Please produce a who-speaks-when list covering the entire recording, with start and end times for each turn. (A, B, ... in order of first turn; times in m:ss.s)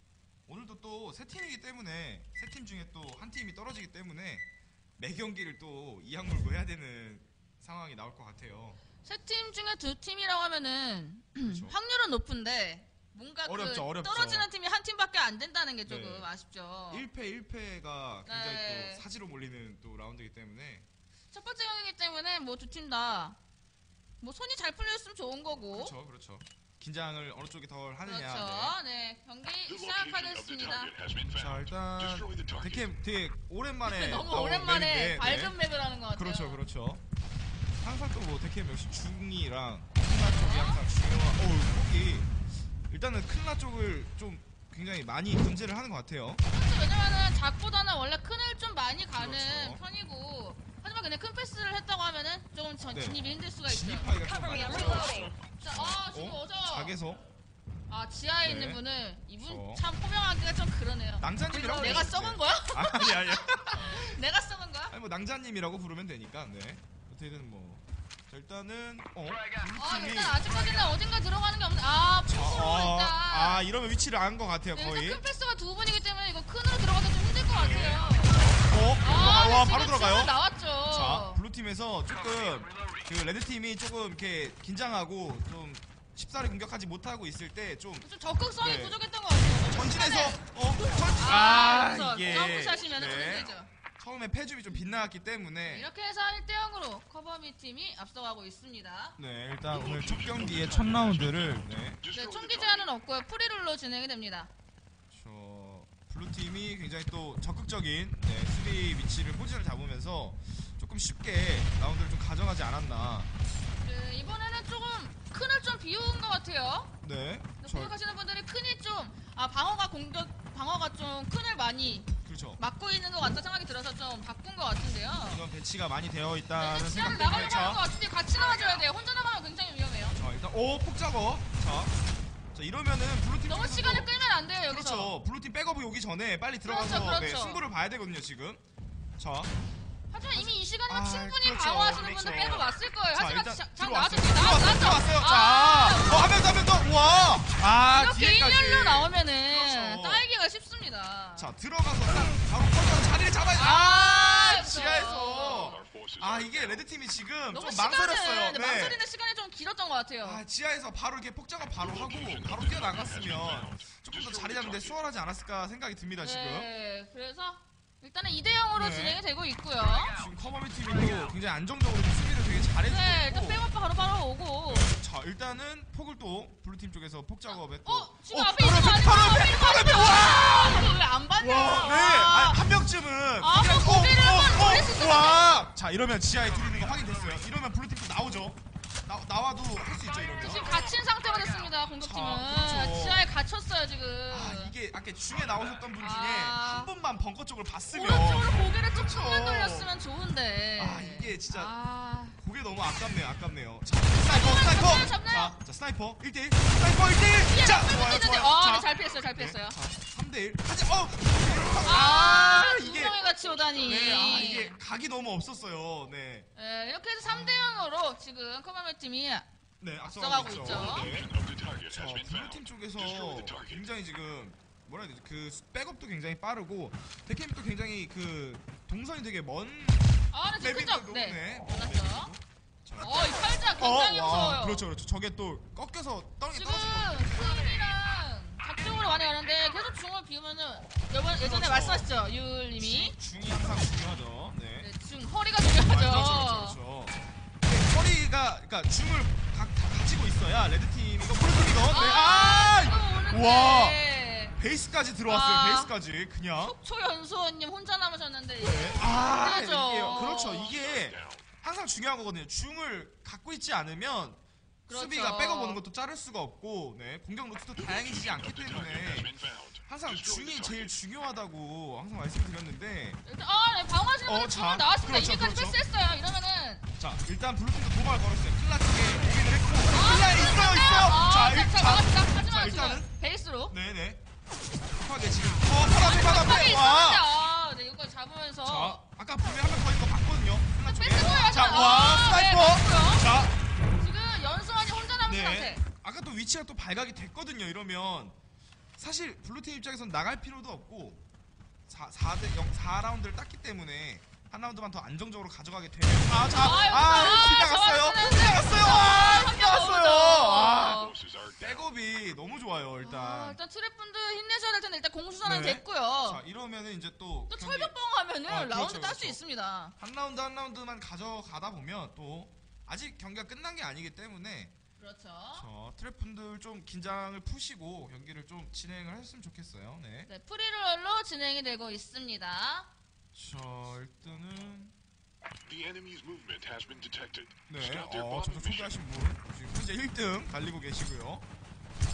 0:00.5-0:04.4 A
0:05.0-0:08.8 A
0:09.0-0:17.0 B
0:11.4-0:11.8 A
0:13.4-0:14.5 A
0:15.8-0:16.3 A
0:16.9-0:20.8 A
0:18.2-0:19.0 B
0:21.3-0:23.4 B
0:24.2-0:25.9 B
0:25.7-0:28.8 A
0:28.0-0:30.9 B
0:29.7-0:32.9 C
0:31.2-0:35.5 A
0:33.8-0:36.6 B
0:36.1-0:37.0 A
0:37.8-0:42.3 A
0:40.2-0:40.8 B
0:42.9-0:46.4 A
0:46.5-0:54.1 B
0:49.1-0:49.8 A
0:52.9-0:57.2 A
0:54.7-0:56.9 B
0:57.9-1:04.9 B
0:58.4-0:58.8 A
0:59.4-0:59.8 A
1:01.2-1:04.2 A
1:04.9-1:10.4 A
1:09.7-1:13.6 B
1:12.2-1:15.2 A
1:14.7-1:21.4 B
1:17.5-1:29.0 A
1:28.0-1:33.7 B
1:29.7-1:35.9 A
1:35.7-1:39.2 B
1:39.2-1:42.0 A
1:39.7-1:42.9 C
1:42.1-1:44.5 B
1:45.1-1:53.3 A
1:53.8-1:56.9 B
1:57.0-1:57.9 A
1:57.6-2:05.4 B
2:02.2-2:02.6 A
2:05.3-2:07.8 A
2:06.6-2:10.2 B
2:10.2-2:11.9 A
2:12.5-2:14.1 A
2:13.4-2:15.2 B
2:14.6-2:18.6 A
2:16.6-2:17.6 B
2:19.2-2:19.5 A
2:20.1-2:26.5 B
2:20.3-2:30.2 A
2:27.6-2:31.5 B
2:31.4-2:39.0 A
2:33.6-2:35.8 B
2:35.5-2:36.8 C
2:37.5-2:40.4 B
2:40.2-2:46.7 A
2:41.8-2:45.0 C
2:46.2-2:50.2 B
2:48.7-2:49.2 A
2:50.1-2:53.7 A
2:52.8-2:54.9 B
2:54.7-3:10.7 A
2:57.8-3:02.6 B
3:03.4-3:05.6 B
3:10.3-3:14.7 B
3:12.0-3:13.3 A
3:14.3-3:19.9 A
3:16.0-3:16.9 B
3:17.9-3:22.4 B
3:20.8-3:21.7 A
3:22.3-3:33.2 A
3:24.1-3:25.6 B
3:27.4-3:29.8 B
3:31.8-3:34.8 B
3:33.0-3:34.1 C
3:33.8-3:36.5 A
3:36.6-3:39.5 B
3:37.2-3:37.9 A
3:39.8-3:41.3 A
3:40.1-3:41.1 B
3:41.0-3:43.8 C
3:41.9-3:57.6 A
3:50.3-3:52.3 B
3:53.0-3:54.8 B
3:56.5-4:03.1 B
4:01.4-4:02.1 A
4:02.8-4:04.9 A
4:04.8-4:06.8 B
4:05.7-4:14.0 A
4:11.9-4:14.6 B
4:14.5-4:16.7 A
4:15.2-4:15.9 B
4:16.6-4:20.7 B
4:18.6-4:33.2 A
4:20.4-4:21.4 C
4:24.9-4:25.8 B
4:27.8-4:31.0 C
4:33.2-4:36.8 B
4:34.2-4:35.8 A
4:37.0-4:43.1 A
4:39.9-4:43.7 B
4:43.7-4:44.2 A
4:44.9-4:47.3 A
4:45.8-4:49.0 B
4:48.6-4:53.6 A
4:50.8-4:53.2 B
4:54.0-4:55.8 B
4:55.2-4:58.4 A
4:59.0-5:01.2 A
5:01.9-5:13.6 A
5:06.5-5:11.2 B
5:10.6-5:11.8 C
5:13.0-5:16.4 B
5:15.4-5:17.9 A
5:17.5-5:19.9 B
5:18.4-5:19.4 A
5:20.0-5:24.7 A
5:25.0-5:25.6 B
5:25.5-5:30.3 A
5:30.3-5:32.9 B
5:33.3-5:34.9 A
5:35.6-5:39.0 C
5:37.7-5:41.4 A